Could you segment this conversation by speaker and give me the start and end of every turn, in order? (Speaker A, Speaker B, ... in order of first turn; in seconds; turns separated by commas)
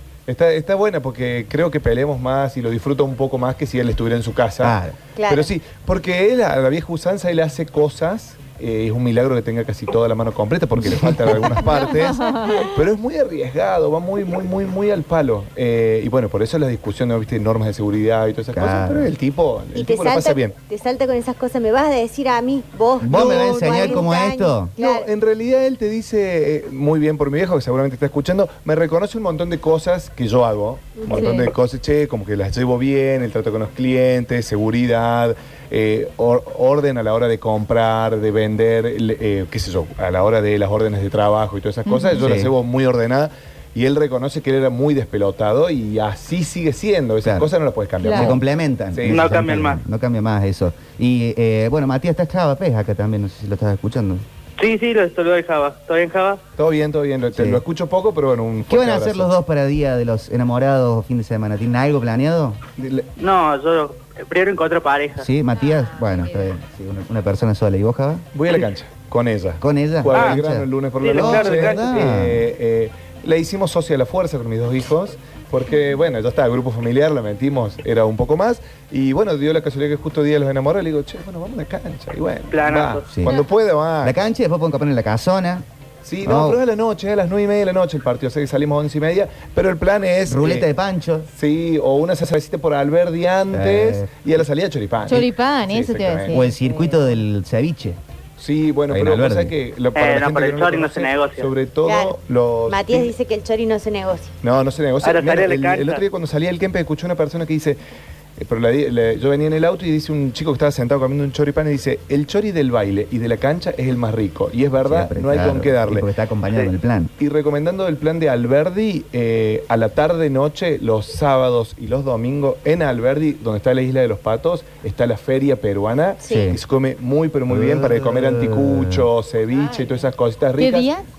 Speaker A: 0.3-20.6, Speaker B: 4.6-5.0, Speaker C: 5.2-5.5, Speaker B: 10.8-11.5, Speaker D: 11.7-12.7, Speaker B: 18.6-19.1, Speaker C: 19.8-25.1, Speaker B: 23.0-24.7, Speaker A: 23.1-23.8, Speaker A: 24.8-48.4, Speaker C: 31.0-31.5, Speaker D: 31.1-31.5, Speaker D: 41.9-42.2, Speaker B: 42.2-42.5, Speaker B: 47.2-47.5, Speaker D: 48.0-48.3, Speaker B: 48.1-54.2, Speaker A: 48.9-49.5, Speaker E: 49.1-49.8, Speaker E: 54.6-56.4, Speaker A: 56.6-59.3, Speaker B: 57.4-57.6, Speaker B: 58.7-62.6, Speaker A: 62.8-63.1, Speaker E: 63.2-65.3, Speaker B: 65.2-68.3, Speaker A: 68.3-84.2, Speaker B: 69.6-72.5, Speaker E: 70.1-70.4, Speaker E: 71.0-72.0, Speaker E: 82.5-83.1, Speaker B: 84.0-85.7, Speaker A: 86.0-90.7, Speaker B: 86.2-86.6, Speaker B: 90.3-91.3, Speaker A: 91.3-96.4, Speaker B: 93.5-94.3, Speaker D: 95.1-97.2, Speaker B: 96.3-98.0, Speaker A: 98.4-103.1, Speaker B: 98.9-99.5, Speaker E: 100.0-101.5, Speaker C: 101.9-102.2, Speaker C: 102.7-104.3, Speaker A: 104.4-107.8, Speaker E: 105.0-106.0, Speaker A: 108.4-130.9, Speaker B: 114.8-117.1, Speaker B: 126.3-126.6, Speaker B: 127.5-129.1, Speaker D: 130.6-131.1